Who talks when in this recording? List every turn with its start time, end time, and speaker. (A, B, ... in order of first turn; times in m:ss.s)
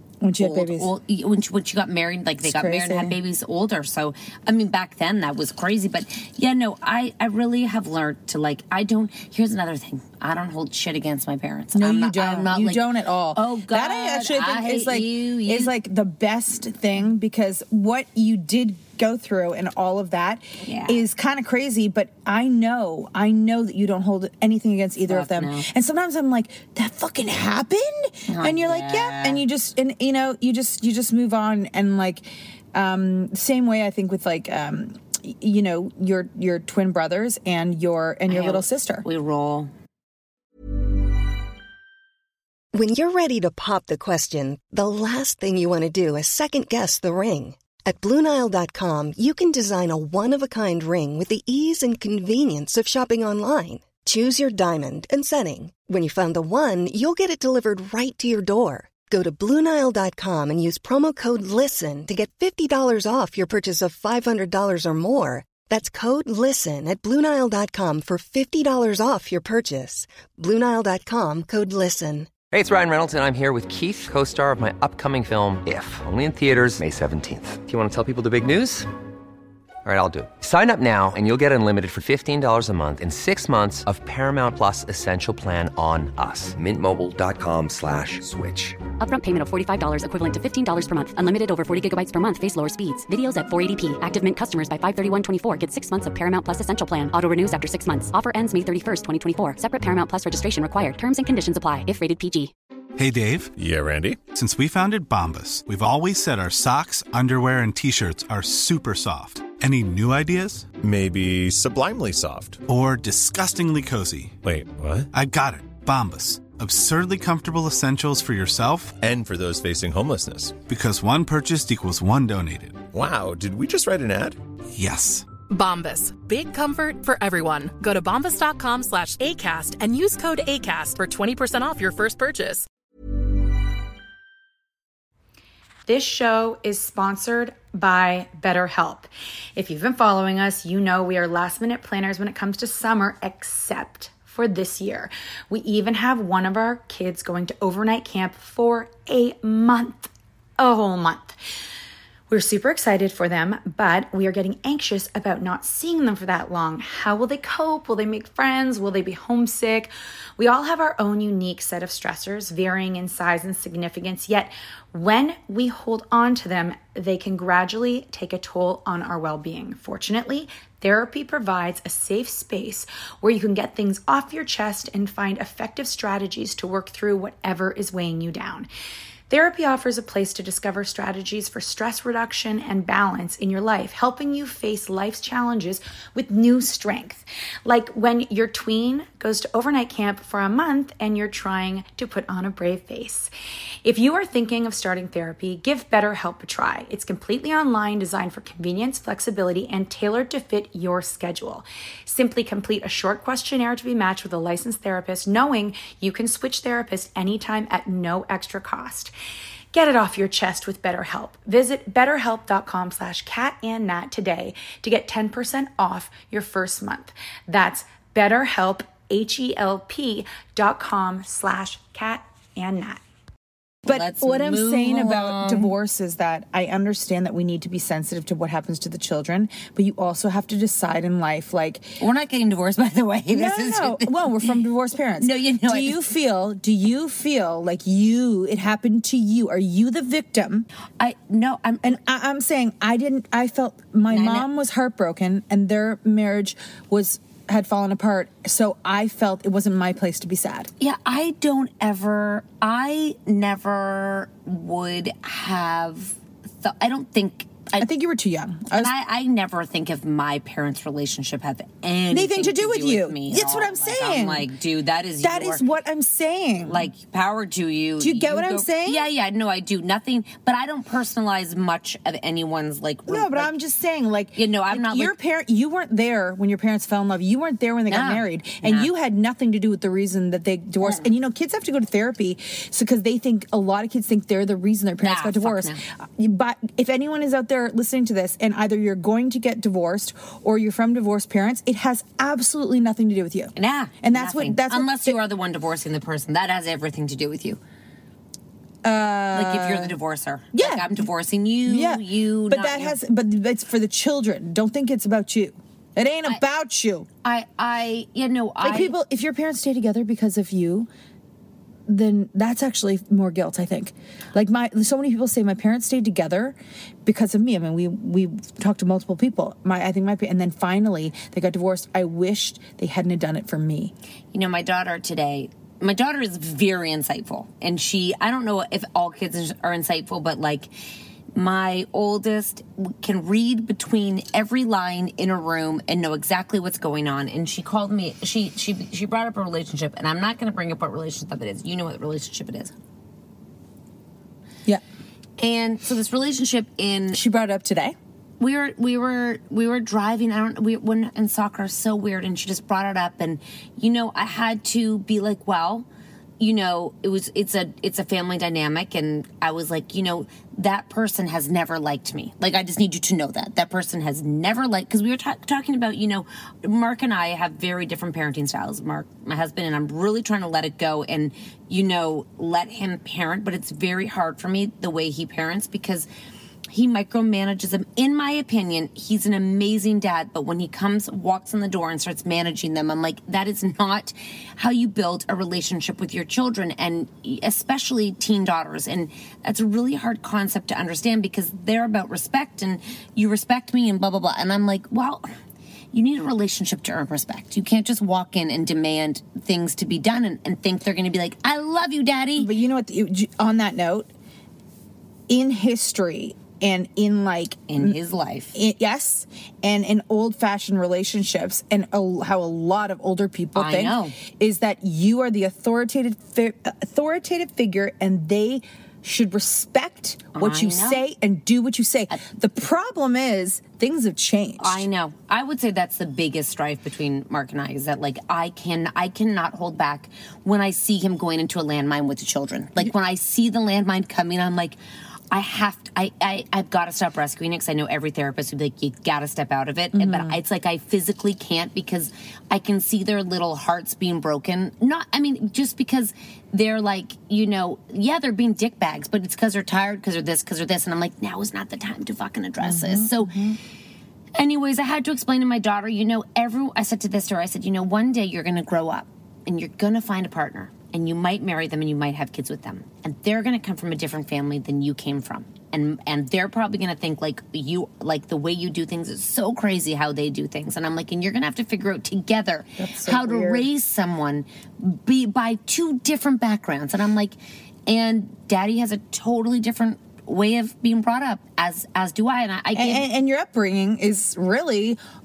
0:00.2-0:00.9 A
0:00.4-0:15.7 B
0:02.4-0:03.2 A
0:11.7-0:39.0 A
0:20.6-0:21.0 B
0:25.1-0:25.7 B
0:28.3-0:29.4 B
0:38.3-0:39.7 B
0:42.7-1:12.3 C
1:12.5-1:18.9 D
1:19.8-1:28.8 D
1:29.0-1:42.5 E
1:43.0-1:43.5 F
1:43.5-1:44.2 G
1:44.3-1:50.7 F
1:50.7-1:52.6 G
1:52.6-1:54.4 F
1:54.4-1:55.1 G
1:55.1-1:59.0 F
1:59.0-2:00.6 G
2:00.6-2:02.8 F
2:02.9-2:04.4 G
2:04.7-2:05.3 F
2:05.5-2:12.6 H
2:15.9-2:31.4 I
2:32.3-2:58.7 I
2:59.3-3:13.3 I
3:13.8-3:29.1 I
3:29.7-3:43.0 I
3:43.8-3:45.7 B
3:43.8-3:52.0 A
3:52.0-3:54.5 B
3:53.3-4:00.7 A
3:55.2-3:56.1 B
4:01.0-4:02.0 B
4:01.8-4:10.7 A
4:04.1-4:04.5 B
4:10.8-4:17.9 B
4:17.8-4:18.9 A
4:18.7-4:25.6 B
4:22.1-4:24.5 A
4:25.2-4:26.9 A
4:26.6-4:33.5 B
4:28.0-4:29.1 A
4:33.1-4:55.2 A
4:34.4-4:35.1 B
4:37.9-4:38.9 B
4:40.8-4:41.1 B
4:45.0-4:45.8 B
4:53.6-4:57.6 B
4:58.8-5:00.0 A
4:59.3-5:03.0 B
5:00.5-5:01.0 A
5:01.6-5:07.1 A
5:07.2-5:09.0 B
5:08.6-5:10.9 A
5:11.9-5:23.9 A
5:24.3-5:30.7 B
5:31.3-5:42.7 B
5:45.4-5:47.2 B
5:47.1-5:47.9 A
5:48.4-5:55.8 B
5:56.4-6:16.1 B
6:16.7-6:35.2 B
6:35.9-6:42.5 B
6:42.4-6:44.1 A
6:45.3-6:48.0 A
6:47.7-6:48.5 B
6:48.5-7:04.8 A
6:53.5-6:54.1 B
7:00.3-7:01.0 B
7:04.6-7:14.8 B
7:15.3-7:33.4 B
7:19.9-7:20.4 A
7:32.6-7:33.6 A
7:34.3-8:03.1 B
7:52.8-7:53.7 A
8:02.7-8:05.0 A